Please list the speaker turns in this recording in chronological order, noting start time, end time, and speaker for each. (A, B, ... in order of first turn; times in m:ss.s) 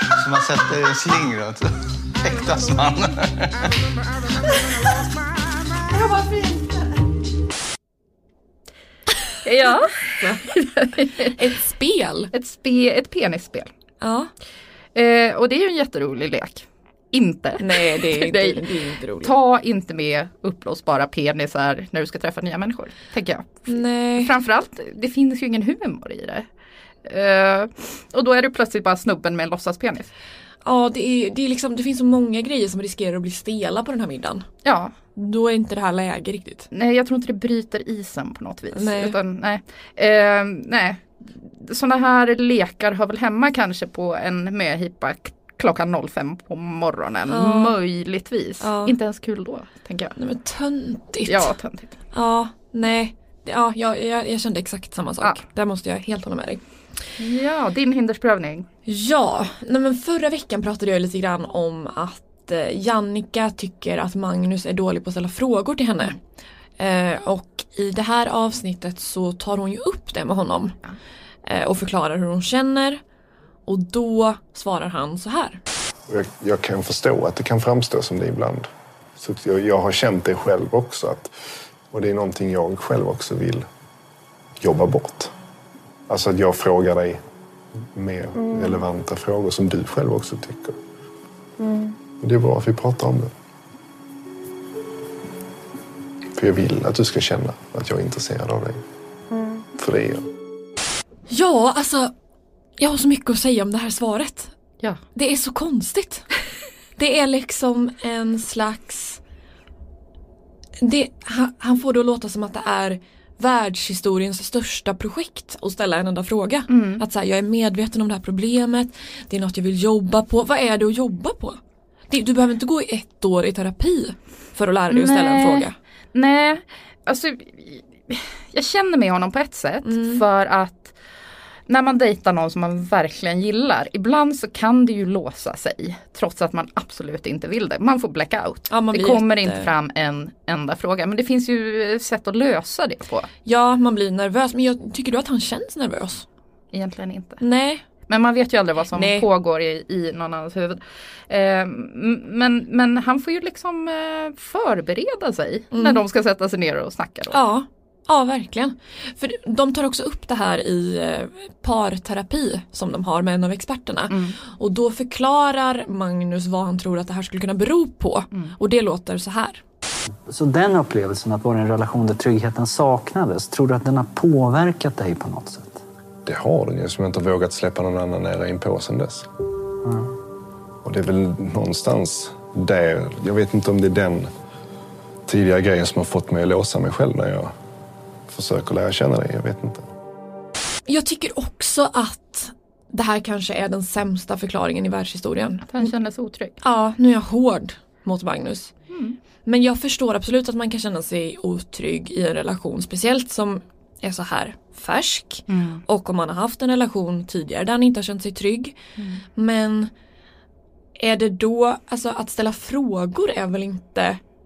0:00.2-0:03.5 A
0:05.9-0:06.8 B
0:09.4-0:11.3 C
0:11.3-0:12.3 D
0:12.3-0:13.7 C
0:14.0-0:14.3 D
0:15.0-0:18.6 C
0:17.6-0:19.3 D
0:19.2-0:26.5 C
0:23.7-0:24.3 D
0:27.0-0:30.1 C
0:30.6-0:34.5 D
0:34.6-0:34.9 C
0:35.2-0:36.7 D
0:36.7-0:50.1 C
0:38.7-0:39.2 D
0:47.3-0:47.8 D
0:48.6-0:49.0 D
0:50.2-0:51.5 D
0:51.3-0:51.9 C
0:52.1-0:56.6 D
0:57.2-0:58.7 C
0:58.9-1:06.2 D
1:06.8-1:10.8 D
1:11.5-1:13.0 D
1:13.7-1:15.6 D
1:16.1-1:21.3 E
1:21.9-1:23.7 E
1:24.6-1:25.3 E
1:26.1-1:27.2 E
1:27.9-1:30.8 E
1:28.4-1:28.8 B
1:31.6-1:32.0 B
1:32.2-1:33.3 E
1:36.3-1:38.8 E
1:39.3-1:39.7 B
1:39.8-1:40.3 E
1:41.3-1:42.1 D
1:42.8-1:44.6 D
1:45.1-1:46.3 D
1:47.0-1:49.2 D
1:50.8-2:05.8 D
1:56.7-1:57.0 C
2:04.9-2:11.0 C
2:09.8-2:10.2 D
2:11.7-2:23.3 C
2:18.7-2:19.7 D
2:23.4-2:26.2 D
2:26.7-2:27.4 C
2:27.4-2:27.8 D
2:28.1-2:37.4 C
2:28.9-2:29.3 D
2:35.7-2:36.0 D
2:37.3-2:49.6 D
2:44.1-2:44.4 C
2:50.3-2:55.8 F
2:56.2-2:59.3 E
3:00.8-3:04.3 E
3:05.3-3:07.5 E
3:08.3-3:09.9 E
3:10.9-3:15.9 D
3:15.6-3:16.6 C
3:16.6-3:18.8 D
3:18.9-3:19.2 C
3:19.4-3:28.8 D
3:25.5-3:25.8 C
3:29.4-3:29.9 D
3:31.0-3:34.2 D